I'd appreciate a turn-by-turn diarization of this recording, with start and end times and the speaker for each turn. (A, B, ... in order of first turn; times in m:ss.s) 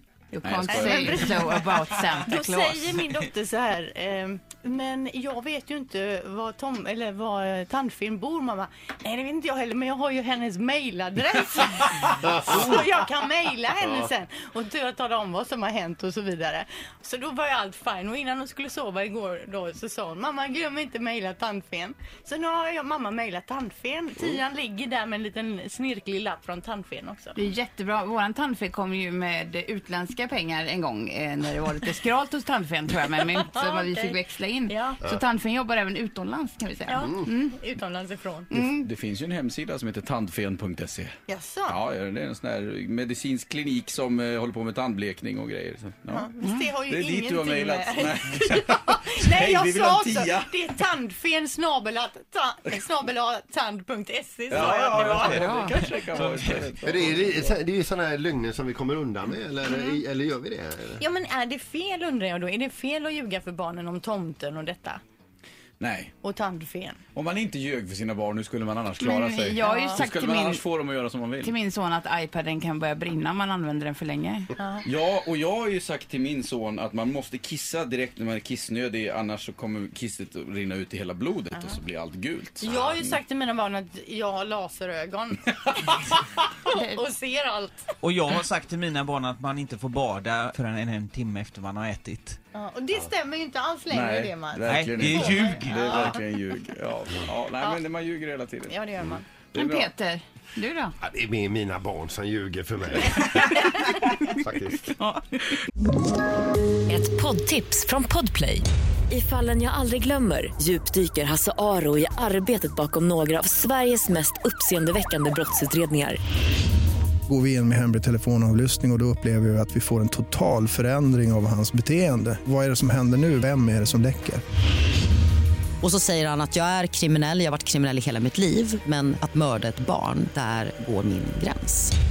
0:00.3-0:03.0 A
0:00.4-0:01.5 B
0:00.7-0:01.6 C
0:02.2-0:27.4 C
0:27.4-0:37.5 A
0:33.2-0:35.0 C
0:36.9-0:38.5 C
0:38.5-0:41.1 B
0:41.3-0:41.8 C
0:41.7-0:46.3 B
0:46.1-0:55.6 C
0:46.9-0:50.5 B
0:54.5-0:57.6 B
0:54.8-0:57.0 D
0:56.8-1:01.0 E
0:59.7-0:59.9 C
1:01.0-1:05.0 C
1:05.8-1:06.1 B
1:06.2-1:07.0 C
1:07.1-1:11.5 B
1:09.0-1:10.6 A
1:09.6-1:10.0 C
1:11.4-1:14.5 A
1:14.6-1:14.9 C
1:14.8-1:23.2 B
1:22.6-1:27.8 C
1:28.0-1:32.4 D
1:32.5-1:36.2 C
1:33.9-1:38.7 B
1:34.6-1:36.0 D
1:38.7-1:39.3 C
1:39.5-1:39.9 B
1:39.6-1:40.9 A
1:41.0-1:43.7 E
1:43.9-1:44.2 D
1:44.3-1:44.9 E
1:46.9-1:56.2 F
1:57.3-2:04.4 G
2:05.8-2:11.9 H